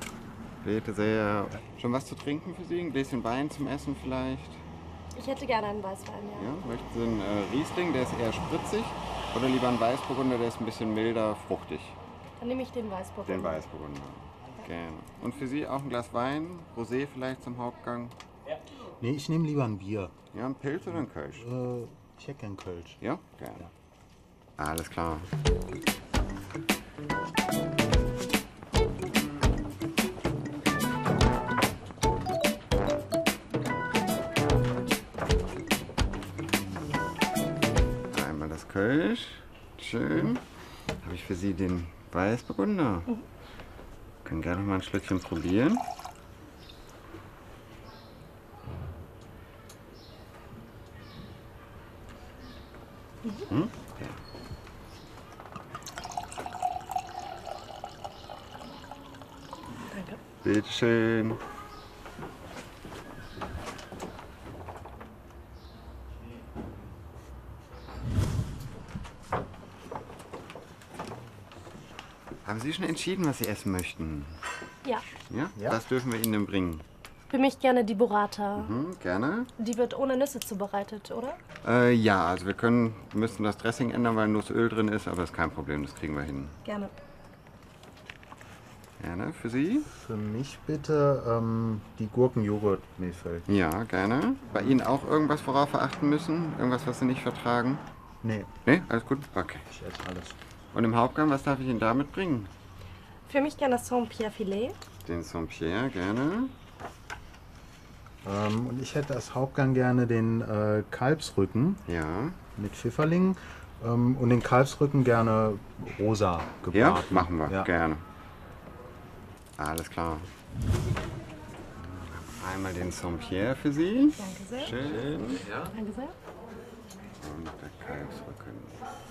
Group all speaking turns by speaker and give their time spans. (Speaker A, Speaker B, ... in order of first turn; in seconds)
Speaker A: 0.6-4.6, 6.3-12.0, 13.3-18.1, 20.3-21.5, 23.0-23.7, 24.6-25.3, 38.1-40.4, 41.0-43.1, 44.2-45.8, 53.4-54.2, 60.4-61.4, 72.5-74.3, 75.3-76.8, 78.6-79.5, 81.6-86.5, 89.0-89.9, 93.5-97.8, 98.7-99.6, 100.7-102.5, 105.0-106.5, 111.9-112.4, 116.7-118.0, 119.6-120.3, 121.9-125.5, 127.2-128.8
Speaker B: 5.1-6.5, 12.4-13.7, 59.9-60.2, 77.3-78.7, 79.6-81.4, 86.7-86.9, 103.3-104.8, 124.2-124.8, 125.5-126.2
Speaker C: 19.0-20.1, 21.0-23.0, 89.9-93.5, 98.2-98.5, 99.7-100.4, 108.2-111.8, 112.6-117.7